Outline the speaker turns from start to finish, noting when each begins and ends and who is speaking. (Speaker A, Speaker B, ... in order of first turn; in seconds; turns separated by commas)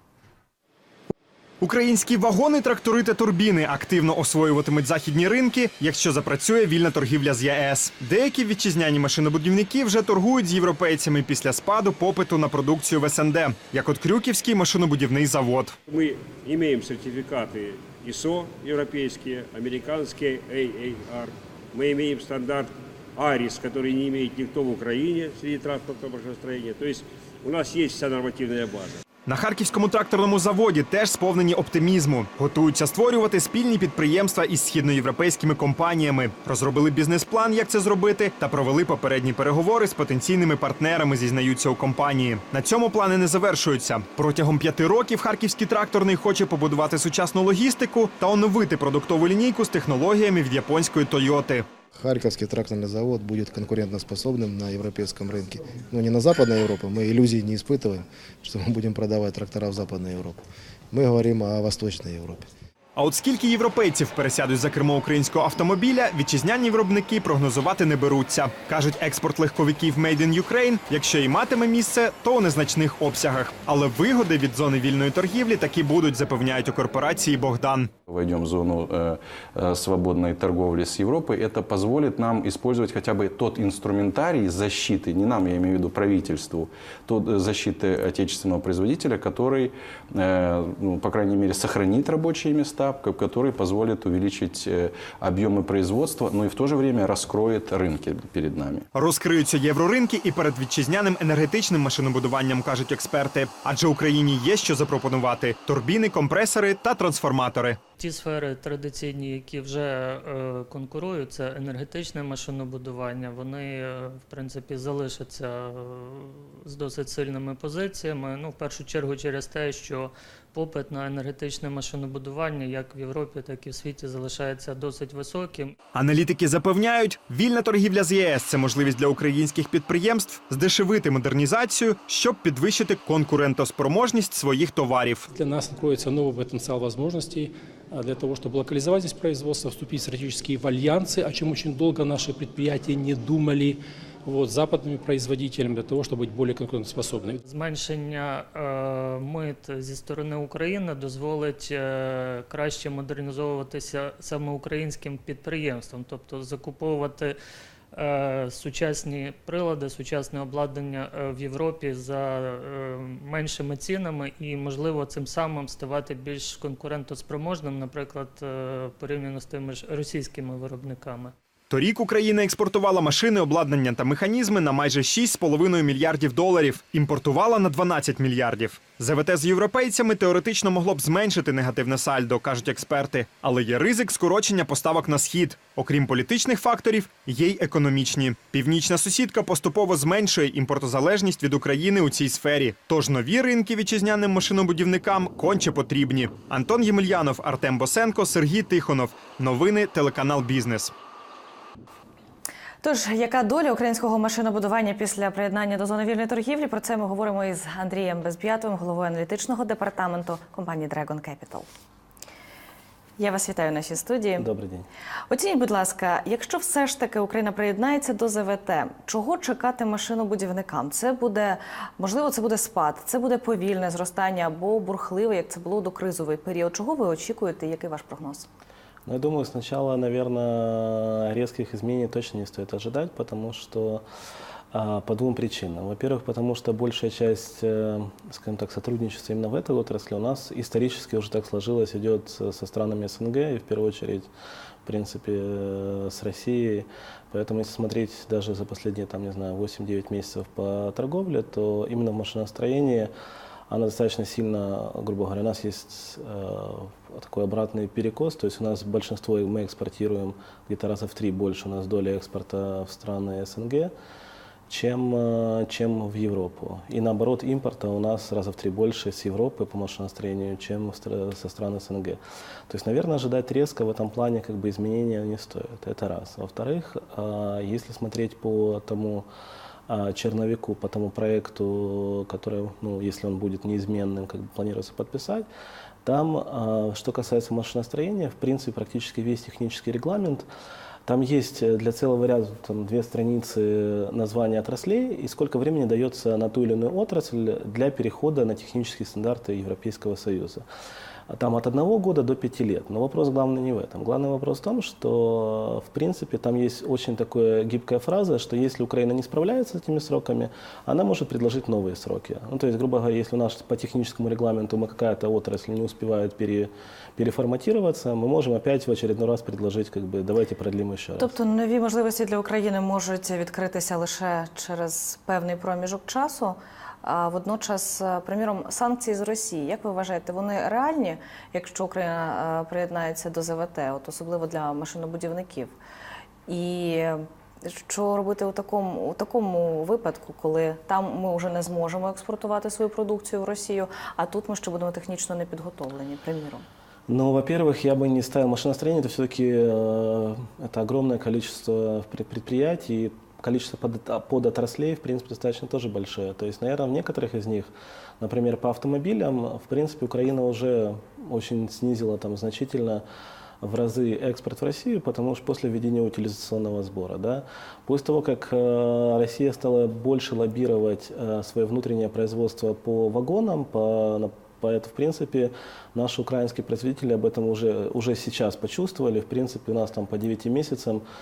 Speaker A: 1.6-15.8, Speaker B: 15.9-29.0, Speaker A: 29.2-51.6, Speaker C: 51.9-62.5, Speaker A: 63.0-77.9, Speaker D: 78.1-98.8, Speaker A: 98.9-107.8, Speaker E: 108.0-125.8, Speaker A: 125.9-135.3, Speaker F: 135.3-147.4, Speaker E: 147.4-157.4, Speaker E: 157.9-171.3, Speaker A: 171.7-200.9, Speaker G: 202.8-211.7, Speaker G: 213.2-214.4, Speaker H: 214.4-214.9, Speaker G: 215.3-228.5, Speaker H: 229.1-234.0, Speaker H: 234.7-244.3, Speaker H: 244.8-253.1, Speaker H: 253.7-263.9, Speaker H: 264.7-279.3, Speaker H: 279.9-285.5, Speaker H: 286.0-290.5, Speaker H: 291.0-300.6, Speaker H: 301.3-321.3, Speaker G: 321.2-335.8, Speaker G: 336.5-346.6, Speaker H: 347.1-363.0, Speaker H: 363.6-381.0